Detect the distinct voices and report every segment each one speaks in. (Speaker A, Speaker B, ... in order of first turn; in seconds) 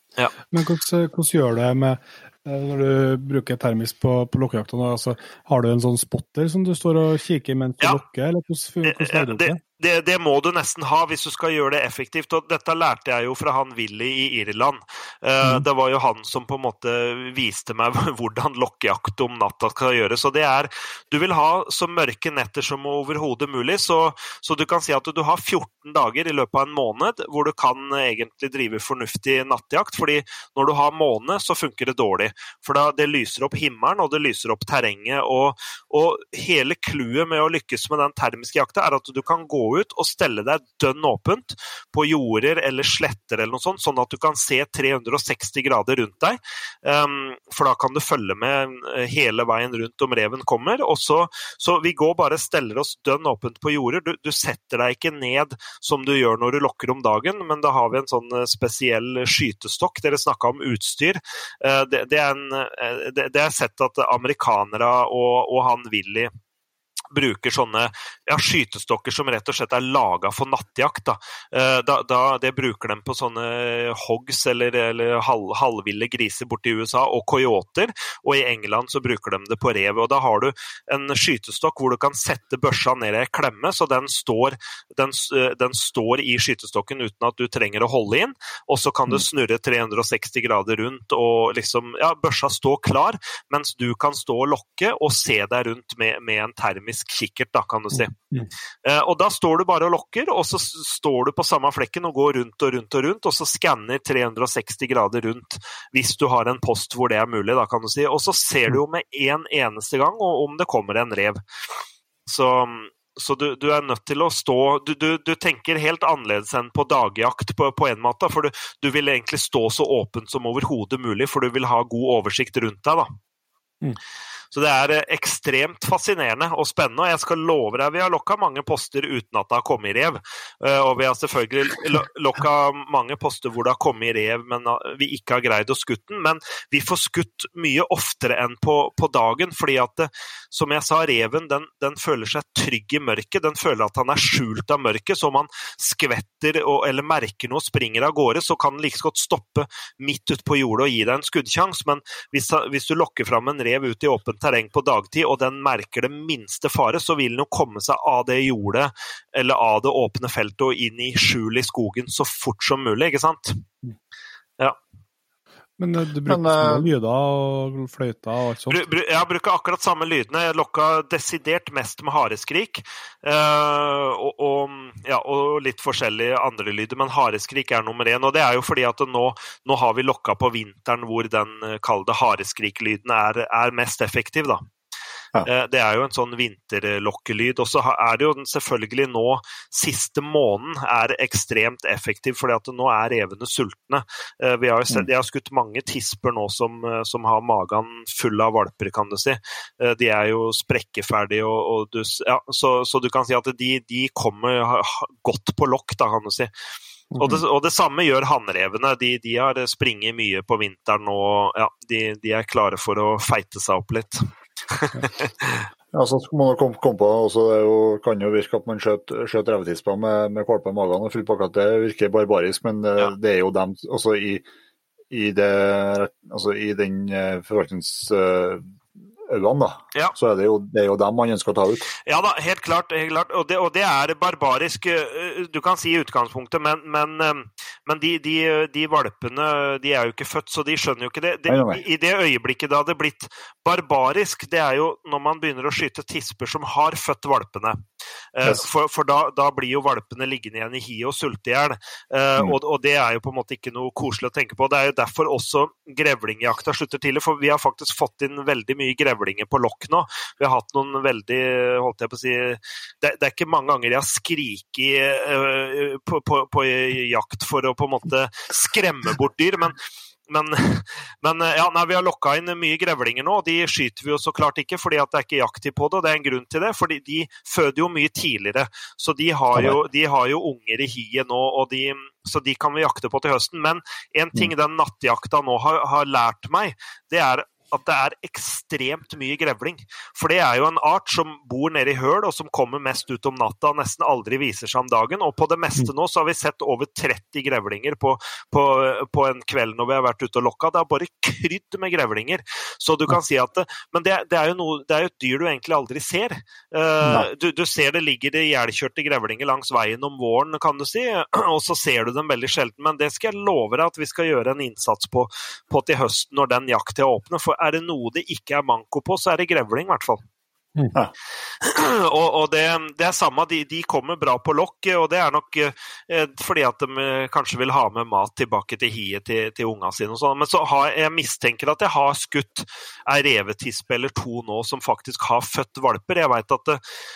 Speaker A: 0.5-9.6, 97.9-98.5, 165.8-168.8, 207.1-207.4
Speaker B: 8.8-66.3, 67.1-98.1, 98.8-111.4, 112.3-123.1, 124.5-163.6, 168.7-184.6, 185.4-206.5, 207.2-215.7, 232.1-247.8, 248.3-269.8, 270.3-320.2, 321.6-336.8
Speaker C: 166.3-166.9, 215.9-224.4, 225.1-228.6, 229.3-231.9, 241.5-241.8